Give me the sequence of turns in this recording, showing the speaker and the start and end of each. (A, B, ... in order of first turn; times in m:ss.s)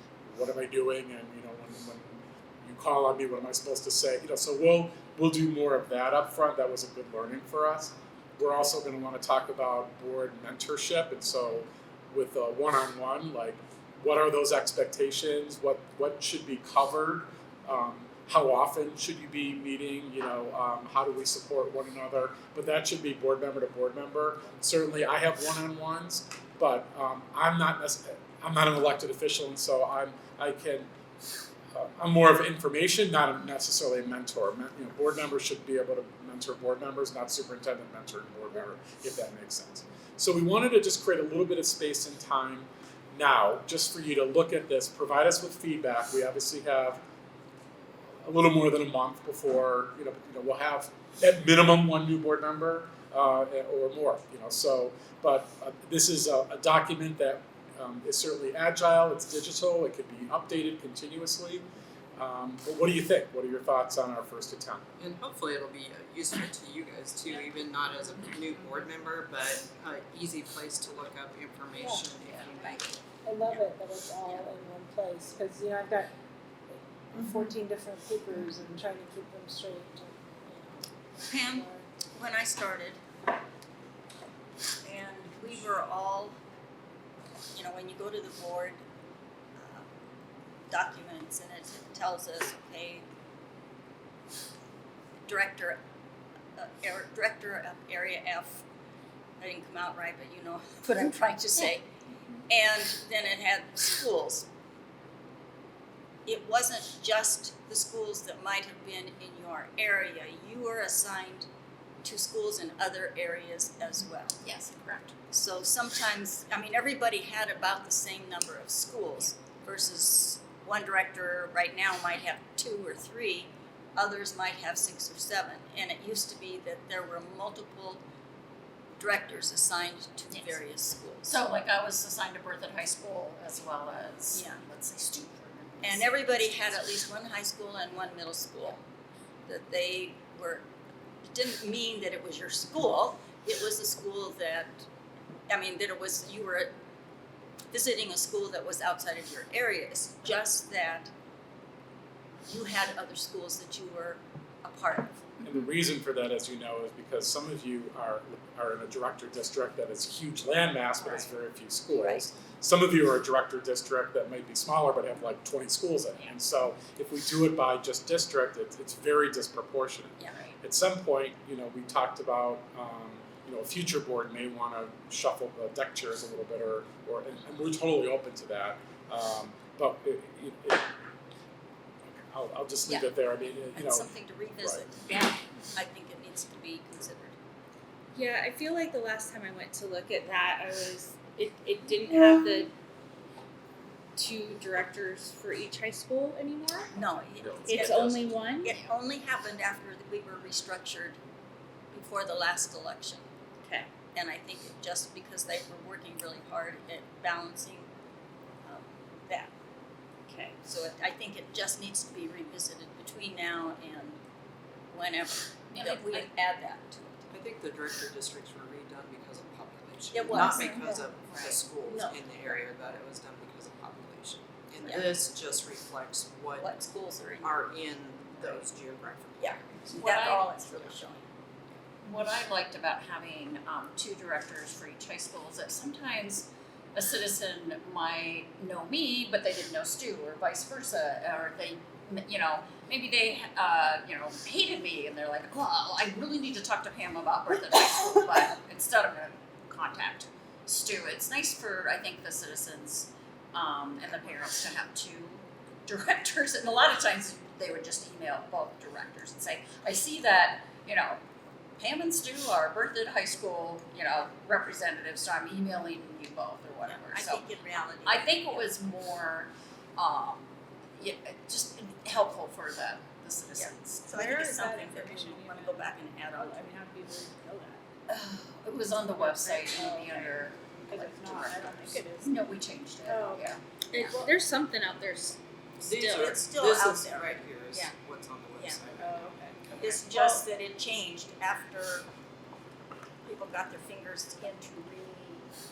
0:00.3-0:30.9 A
0:31.7-0:47.0 A
0:48.2-1:01.6 A
1:02.2-1:04.9 A
1:05.0-1:13.0 B
1:11.8-1:12.1 C
1:13.2-1:16.1 C
1:16.8-1:20.8 C
1:21.3-1:23.0 D
1:21.4-1:21.8 C
1:24.8-1:26.4 D
1:27.6-1:28.8 D
1:29.6-1:29.8 D
1:30.7-1:33.0 D
1:35.2-1:35.8 D
1:36.6-1:38.6 D
1:39.4-1:41.9 D
1:42.5-1:44.5 D
1:46.3-1:51.5 D
1:52.0-1:54.4 D
1:54.4-1:55.2 E
1:55.3-2:08.0 D
2:09.0-2:11.3 D
2:10.3-2:10.6 E
2:11.2-2:16.8 E
2:14.3-2:14.6 D
2:15.8-2:18.8 D
2:19.5-2:20.7 D
2:21.3-2:24.9 D
2:25.5-2:26.7 D
2:27.7-2:31.1 D
2:32.5-2:35.4 D
2:35.4-3:00.9 A
2:41.0-2:41.3 D
2:41.9-2:42.3 D
2:50.2-2:50.5 D
3:02.2-3:04.8 A
3:03.7-3:07.4 D
3:08.2-3:12.7 F
3:14.2-3:16.9 F
3:16.9-3:21.2 D
3:17.6-3:18.7 F
3:21.9-3:23.2 D
3:24.1-3:27.9 D
3:28.6-3:29.5 D
3:30.6-3:34.2 D
3:34.9-3:37.3 D
3:35.7-3:36.3 E
3:37.3-3:46.7 B
3:40.1-3:41.1 D
3:40.3-3:41.6 E
3:41.8-3:42.6 D
3:44.8-3:45.0 D
3:46.6-3:47.7 D
3:47.4-3:50.0 B
3:48.4-3:48.7 D
3:49.4-3:51.2 D
3:49.9-3:50.5 E
3:52.0-4:21.2 E
4:21.8-4:27.4 E
4:26.8-4:28.7 D
4:28.1-4:34.1 E
4:33.5-4:36.8 D
4:34.1-4:37.8 C
4:38.1-4:44.2 E
4:39.2-4:42.4 C
4:43.1-4:43.5 C
4:43.9-4:45.4 F
4:45.8-4:49.1 B
4:45.9-4:47.9 D
4:48.6-4:48.8 D
4:49.0-4:49.4 C
4:49.6-4:50.0 B
4:49.8-4:52.1 D
4:53.2-4:55.5 D